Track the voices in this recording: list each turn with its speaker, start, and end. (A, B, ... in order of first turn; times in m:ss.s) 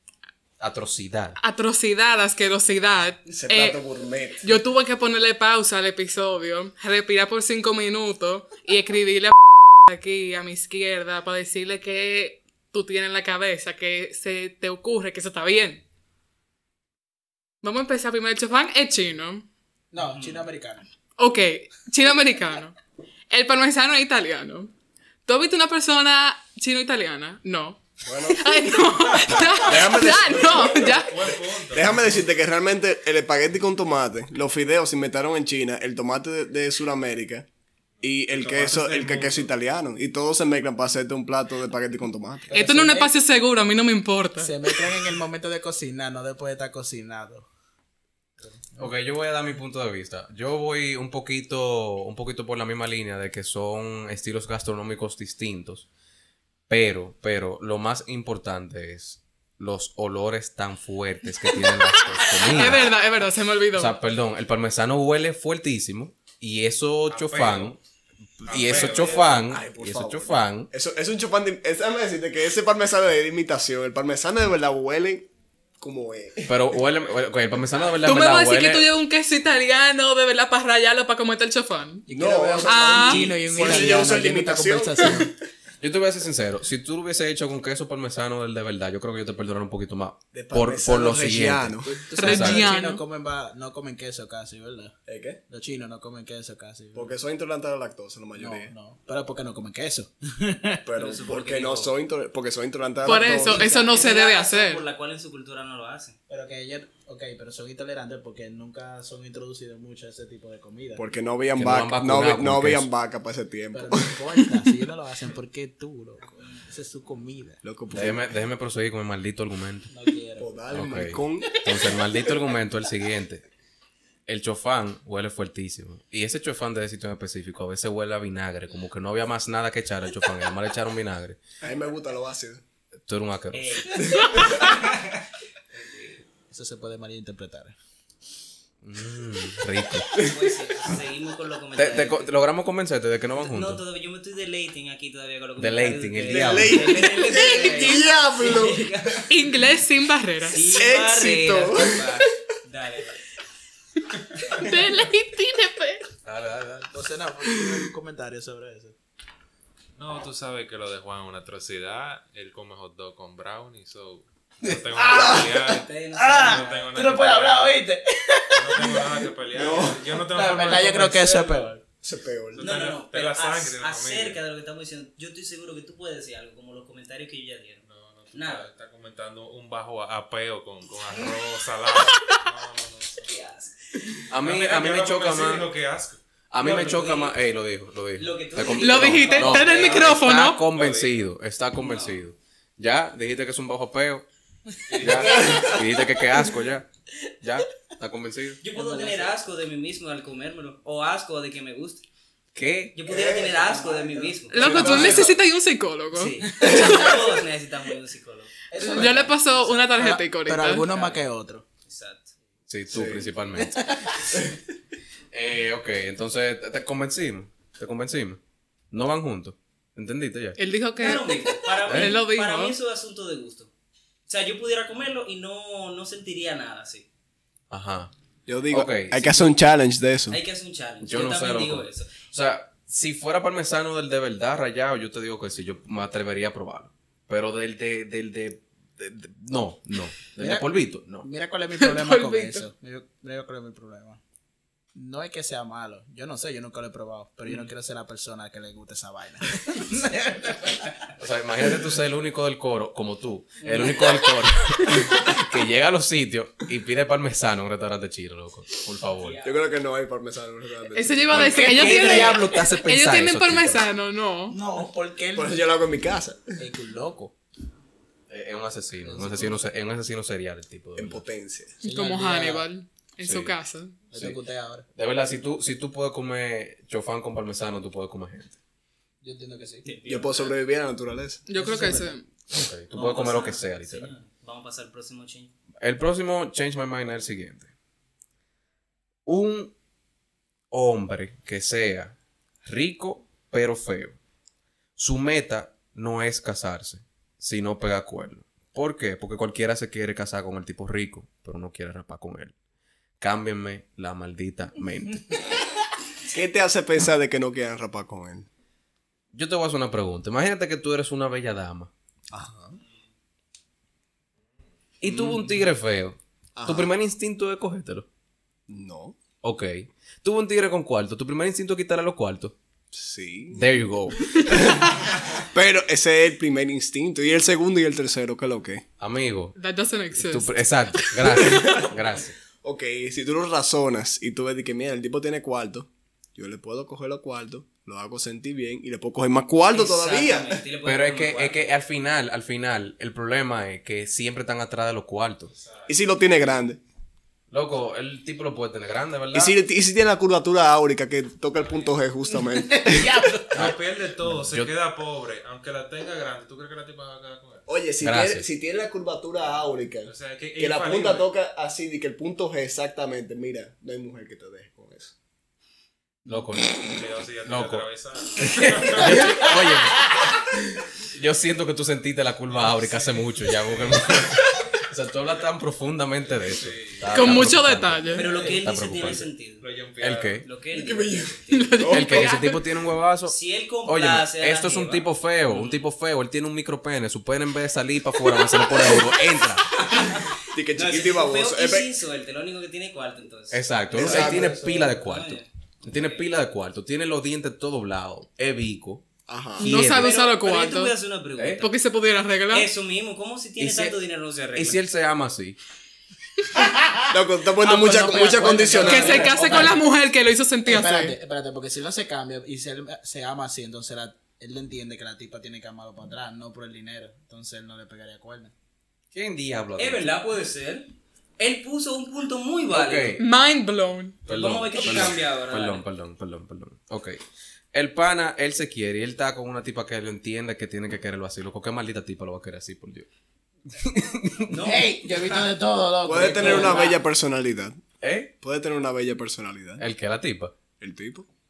0:00.6-0:01.4 A
0:01.4-0:03.8 B
0:03.3-0:04.5 C
0:04.4-0:15.8 B
0:17.6-0:19.5 B
0:19.9-0:20.9 D
0:20.0-0:20.4 E
0:21.2-0:22.8 B
0:23.3-0:24.7 B
0:25.2-0:31.3 B
0:28.0-0:28.4 C
0:29.6-0:31.0 C
0:30.4-0:32.4 F
0:31.7-0:37.5 C
0:38.0-0:39.5 F
0:38.0-0:42.5 C
0:42.5-0:43.1 D
0:42.5-0:44.8 B
0:44.4-0:47.5 D
0:48.4-0:48.9 D
0:48.8-0:55.8 A
0:56.7-1:02.9 A
1:01.7-1:04.0 B
1:03.7-1:07.8 A
1:07.1-1:07.8 F
1:08.4-1:10.7 A
1:08.5-1:09.4 F
1:08.5-1:15.3 C
1:15.8-1:16.6 C
1:16.4-1:18.9 A
1:18.0-1:22.0 B
1:22.1-1:25.3 D
1:22.1-1:25.3 C
1:22.6-1:23.3 B
1:25.8-1:32.7 A
1:30.3-1:32.0 C
1:31.8-1:35.0 D
1:32.2-1:33.0 B
1:35.0-1:35.4 C
1:35.5-1:37.1 D
1:36.9-1:38.7 C
1:38.4-1:40.8 D
1:40.8-1:43.6 C
1:41.0-1:41.9 E
1:43.0-1:44.8 B
1:43.1-1:43.9 D
1:43.6-1:46.2 E
1:46.3-1:51.0 D
1:51.0-1:54.7 C
1:51.6-1:52.9 A
1:53.7-1:57.6 D
1:57.6-1:58.2 C
1:57.9-1:59.9 A
1:59.9-2:00.5 D
2:00.4-2:01.6 C
2:00.7-2:03.4 A
2:04.2-2:11.4 A
2:11.6-2:12.6 C
2:13.1-2:14.0 A
2:13.5-2:15.2 E
2:14.1-2:14.5 C
2:15.7-2:16.1 E
2:16.5-2:17.8 D
2:18.8-2:20.2 A
2:20.2-2:22.3 E
2:21.8-2:23.8 A
2:23.4-2:29.3 E
2:25.6-2:26.9 A
2:26.3-2:29.2 C
2:29.3-2:30.7 B
2:30.4-2:33.2 E
2:30.7-2:32.1 C
2:34.4-2:36.1 B
2:36.2-2:36.9 A
2:36.9-2:39.0 D
2:40.0-2:47.8 F
2:44.9-2:49.1 D
2:45.6-2:46.9 E
2:48.5-2:51.7 F
2:49.5-2:50.0 C
2:50.3-2:51.8 D
2:52.0-2:52.7 C
2:52.5-2:54.4 F
2:52.6-2:58.7 E
2:57.8-3:03.4 F
3:03.2-3:04.2 E
3:04.3-3:05.7 A
3:04.4-3:07.3 F
3:06.5-3:14.3 A
3:06.6-3:07.3 E
3:08.2-3:10.1 E
3:08.7-3:10.6 B
3:10.6-3:11.3 F
3:11.8-3:12.2 E
3:14.9-3:15.7 F
3:14.9-3:16.9 A
3:17.4-3:18.6 A
3:18.6-3:22.0 E
3:18.7-3:19.3 D
3:22.5-3:22.9 A
3:22.9-3:25.3 E
3:23.1-3:23.5 C
3:23.1-3:25.3 D
3:24.5-3:27.3 B
3:24.6-3:25.2 C
3:26.1-3:28.6 E
3:26.5-3:27.2 D
3:28.7-3:31.6 D
3:28.8-3:30.9 B
3:30.9-3:31.2 E
3:31.8-3:32.3 E
3:32.7-3:34.3 A
3:32.9-3:33.3 C
3:33.6-3:34.4 D
3:35.3-3:38.4 A
3:38.9-3:40.6 A
3:40.6-3:42.7 B
3:41.0-3:43.7 E
3:41.8-3:42.1 A
3:44.3-3:47.1 E
3:47.7-3:48.1 A
3:48.5-3:50.4 C
3:48.7-3:49.4 A
3:50.3-3:52.2 E
3:51.0-4:01.2 A
4:00.4-4:00.7 D
4:01.2-4:04.2 D
4:01.8-4:02.6 B
4:04.9-4:10.9 D
4:11.2-4:19.4 A
4:13.6-4:14.3 E
4:19.2-4:19.6 E
4:19.4-4:21.7 C
4:20.9-4:24.6 B
4:21.3-4:23.8 A
4:21.3-4:22.6 D
4:24.5-4:25.6 D
4:25.3-4:26.6 C
4:26.6-4:27.3 D
4:28.3-4:31.2 A
4:29.0-4:29.6 D
4:31.0-4:31.8 C
4:31.8-4:34.0 B
4:31.8-4:32.7 D
4:33.2-4:33.5 A
4:34.1-4:34.8 D
4:35.0-4:38.6 A
4:39.2-4:40.0 D
4:39.8-4:40.5 E
4:40.0-4:41.4 C
4:41.5-4:42.3 B
4:41.5-4:42.2 D
4:42.5-4:44.1 A
4:42.9-4:45.5 E
4:45.8-4:47.7 A
4:49.2-4:49.7 A
4:50.7-4:54.2 A
4:55.0-5:02.5 A
5:03.2-5:05.5 A
5:06.2-5:08.5 C
5:09.3-5:11.9 A
5:12.3-5:12.8 C
5:15.0-5:18.1 A
5:15.0-5:15.5 C
5:16.6-5:16.9 C
5:18.7-5:19.2 C
5:19.4-5:22.6 A
5:22.9-5:23.7 C
5:23.5-5:24.8 A
5:24.3-5:28.8 C
5:29.0-5:29.6 A
5:29.6-5:31.8 B
5:30.1-5:32.3 A
5:31.4-5:31.9 C
5:32.6-5:40.6 C
5:39.7-5:41.7 E
5:40.8-5:45.5 A
5:45.5-5:45.9 F
5:45.9-5:46.8 C
5:47.5-5:49.5 A
5:49.3-5:53.3 C
5:51.6-5:52.0 F
5:52.6-5:53.6 D
5:53.5-5:54.7 A
5:53.5-5:57.7 F
5:57.7-6:05.1 C
5:58.0-5:58.4 A
6:00.0-6:01.3 F
6:06.3-6:19.3 A
6:06.8-6:09.2 F
6:12.5-6:14.3 F
6:16.2-6:17.4 F
6:17.1-6:18.3 B
6:18.1-6:19.7 E
6:18.3-6:18.6 D
6:19.6-6:20.5 F
6:20.0-6:20.4 A
6:20.4-6:22.3 E
6:20.7-6:22.2 C
6:21.5-6:22.6 B
6:21.9-6:29.8 A
6:23.2-6:25.8 E
6:29.8-6:36.3 E
6:30.4-6:31.9 C
6:33.5-6:39.0 A
6:33.9-6:34.9 C
6:39.3-6:39.7 C
6:39.6-6:40.9 B
6:39.6-6:40.1 A
6:39.7-6:41.7 E
6:41.6-6:42.7 B
6:42.5-6:44.8 E
6:43.6-6:44.0 A
6:44.5-6:45.6 A
6:46.5-6:49.8 D
6:47.1-6:49.3 C
6:48.8-6:51.2 B
6:50.6-6:58.5 D
6:59.1-7:00.1 A
6:59.8-7:03.2 E
7:02.7-7:03.2 A
7:03.2-7:04.2 B
7:04.2-7:07.2 A
7:04.3-7:05.8 E
7:07.7-7:13.1 A
7:13.7-7:14.6 A
7:14.5-7:15.4 E
7:14.6-7:17.0 D
7:16.0-7:17.8 C
7:16.2-7:16.9 E
7:18.0-7:18.3 A
7:18.4-7:19.8 C
7:19.8-7:20.5 A
7:20.8-7:21.3 C